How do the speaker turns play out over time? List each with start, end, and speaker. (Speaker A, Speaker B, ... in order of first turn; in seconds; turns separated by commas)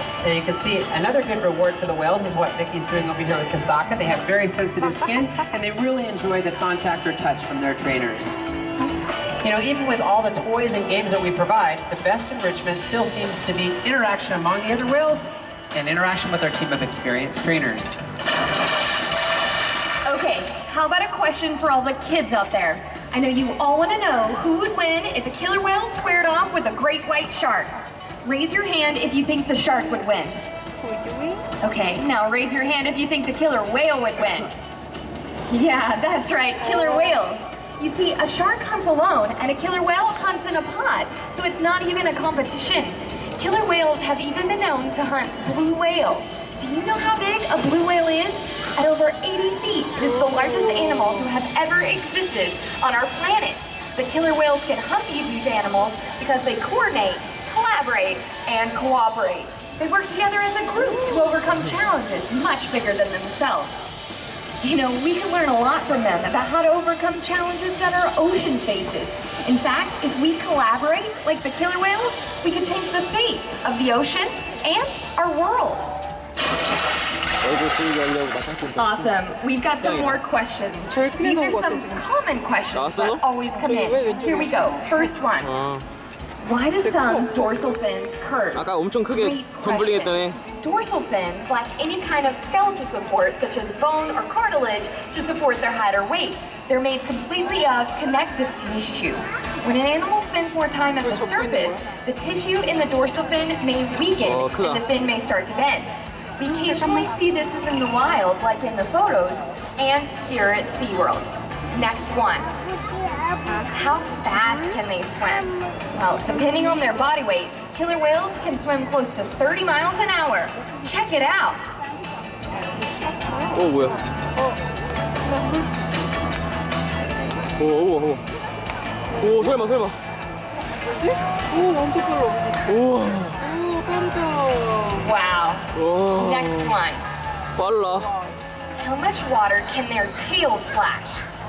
Speaker A: 0.2-8.4, Speaker A: 9.4-18.0, Speaker B: 20.1-27.7, Speaker B: 28.2-30.4, Speaker C: 30.9-31.4, Speaker B: 31.6-34.5, Speaker B: 35.5-63.9, Speaker B: 64.6-75.9, Speaker D: 77.4-78.9, Speaker B: 78.8-85.5, Speaker D: 79.8-80.2, Speaker D: 82.7-83.2, Speaker D: 85.5-85.8, Speaker B: 86.4-112.5, Speaker D: 88.5-90.4, Speaker D: 104.2-104.8, Speaker B: 113.7-121.7, Speaker D: 123.5-124.0, Speaker D: 127.6-128.2, Speaker D: 129.2-130.0, Speaker C: 131.5-132.5, Speaker D: 132.7-133.4, Speaker C: 133.5-134.9, Speaker B: 135.0-137.0, Speaker D: 135.8-136.7, Speaker D: 137.6-138.1, Speaker B: 138.8-141.2